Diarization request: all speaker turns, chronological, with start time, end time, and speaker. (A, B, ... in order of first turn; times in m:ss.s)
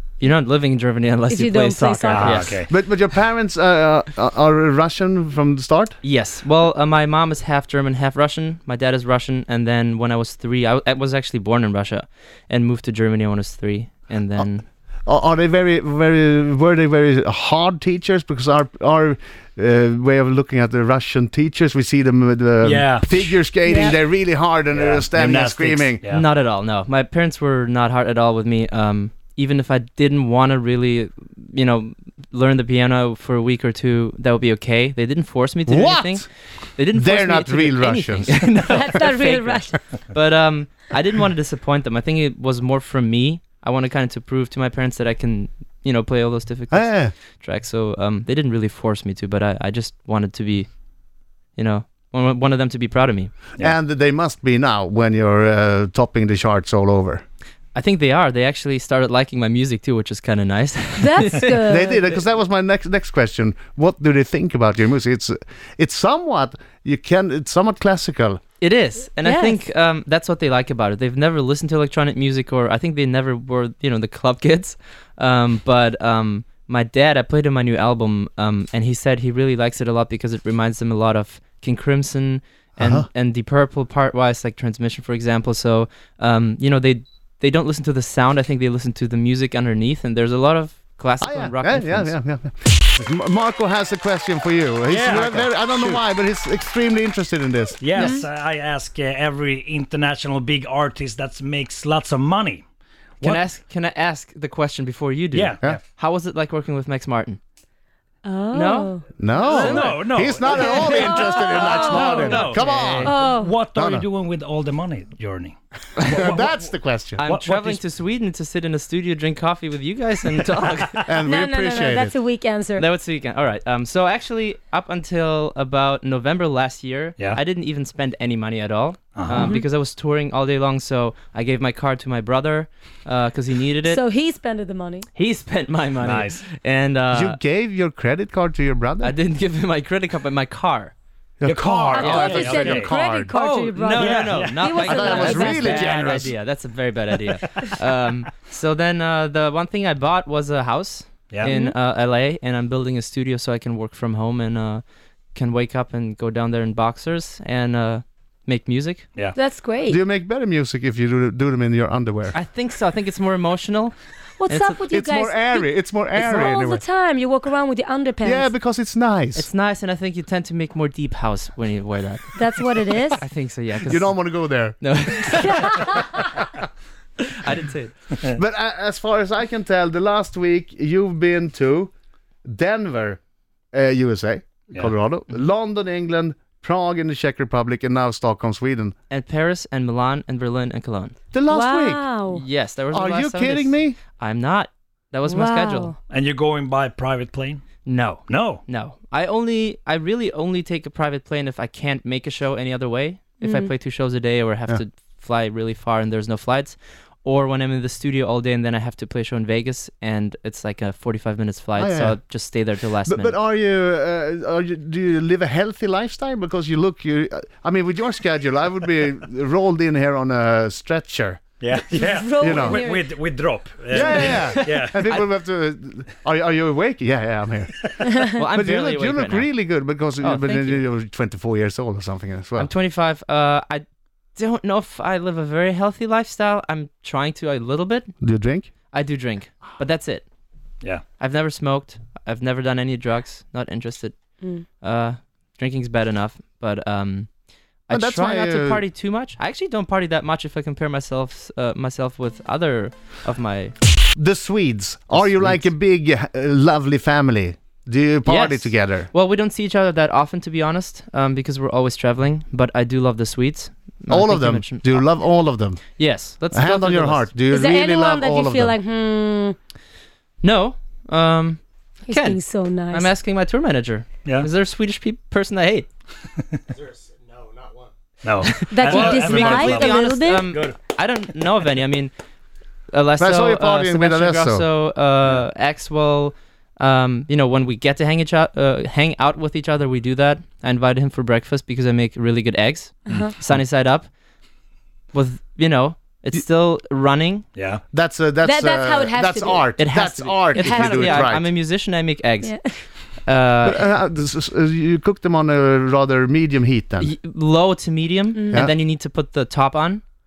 0:00.2-0:02.6 A
0:01.3-0:02.5 B
0:02.1-0:02.7 C
0:02.7-0:06.0 D
0:06.0-0:14.6 A
0:15.0-0:26.0 D
0:22.6-0:23.5 C
0:23.6-0:24.0 B
0:24.7-0:26.2 C
0:26.1-0:36.2 A
0:35.7-0:36.2 D
0:36.8-0:50.8 A
0:36.9-0:38.6 D
0:38.6-0:39.8 B
0:46.7-0:47.1 D
0:51.5-0:53.3 A
0:53.6-0:57.2 D
0:57.7-1:01.6 A
1:01.0-1:02.0 B
1:01.6-1:08.4 D
1:08.6-1:32.2 A
1:09.2-1:09.6 B
1:22.8-1:23.1 D
1:31.2-1:38.1 D
1:34.9-1:35.4 C
1:35.1-1:36.0 A
1:37.8-1:42.6 C
1:38.0-1:38.2 B
1:43.2-1:47.4 A
1:45.3-1:45.8 C
1:48.2-1:49.1 B
1:48.5-1:50.1 A
1:49.2-1:54.0 D
1:49.5-1:56.7 C
1:50.6-1:52.5 B
1:52.2-1:53.1 A
1:53.0-1:53.6 B
1:56.0-1:57.2 D
1:57.2-2:01.1 A
1:57.2-1:57.8 C
2:01.0-2:02.1 D
2:01.2-2:02.8 B
2:02.8-2:14.0 A
2:09.2-2:09.5 C
2:09.3-2:09.6 B
2:13.8-2:15.1 B
2:15.1-2:17.4 A
2:16.0-2:16.4 C
2:17.1-2:19.2 D
2:19.0-2:20.9 A
2:21.4-2:23.3 D
2:21.4-2:22.9 C
2:21.9-2:26.0 B
2:22.0-2:22.8 A
2:23.3-2:39.0 A
2:23.9-2:26.3 C
2:24.8-2:26.3 D
2:31.4-2:31.8 B
2:39.4-2:40.0 B
2:39.9-2:42.4 D
2:42.3-2:44.8 A
2:44.4-2:48.5 B
2:44.9-2:46.8 D
2:48.2-2:49.5 D
2:49.3-2:52.4 A
2:52.4-2:53.2 B
2:53.1-2:56.1 A
2:53.8-2:55.4 D
2:55.7-2:56.2 B
2:57.2-2:57.9 A
2:58.2-3:01.9 D
3:02.4-3:03.2 D
3:03.7-3:08.9 D
3:09.1-3:11.2 A
3:11.3-3:12.0 D
3:11.5-3:12.4 B
3:12.3-3:15.9 A
3:12.9-3:14.0 D
3:15.2-3:16.0 B
3:16.1-3:18.6 C
3:17.8-3:33.4 A
3:23.4-3:23.7 B
3:31.8-3:32.4 D
3:33.0-3:41.4 D
3:41.6-3:45.1 C
3:41.9-3:43.1 B
3:42.4-3:42.8 D
3:43.9-3:52.7 D
3:44.1-3:45.3 A
3:48.4-3:49.5 A
3:50.2-3:50.8 A
3:52.6-3:58.1 A
3:58.2-3:58.7 D
3:58.9-4:00.2 A
4:01.2-4:07.3 A
4:07.9-4:13.7 A
4:07.9-4:08.8 D
4:14.1-4:19.1 D
4:15.1-4:15.7 A
4:18.2-4:25.1 A
4:24.1-4:26.0 D
4:26.0-4:27.3 A
4:26.5-4:28.7 D
4:27.5-4:29.6 B
4:30.4-4:35.9 A
4:32.0-4:33.2 B
4:38.2-4:40.0 C
4:38.5-4:42.1 A
4:38.7-4:40.5 B
4:40.5-4:40.8 C
4:42.9-4:54.1 A
4:43.2-4:44.7 D
4:55.1-4:57.4 A
4:57.6-4:57.8 C
4:57.9-5:01.5 D
4:58.4-4:59.8 B
4:59.8-5:02.5 A
5:00.5-5:01.3 B
5:02.4-5:02.8 B
5:03.2-5:03.9 A
5:03.6-5:07.1 D
5:07.0-5:10.0 A
5:08.3-5:08.7 B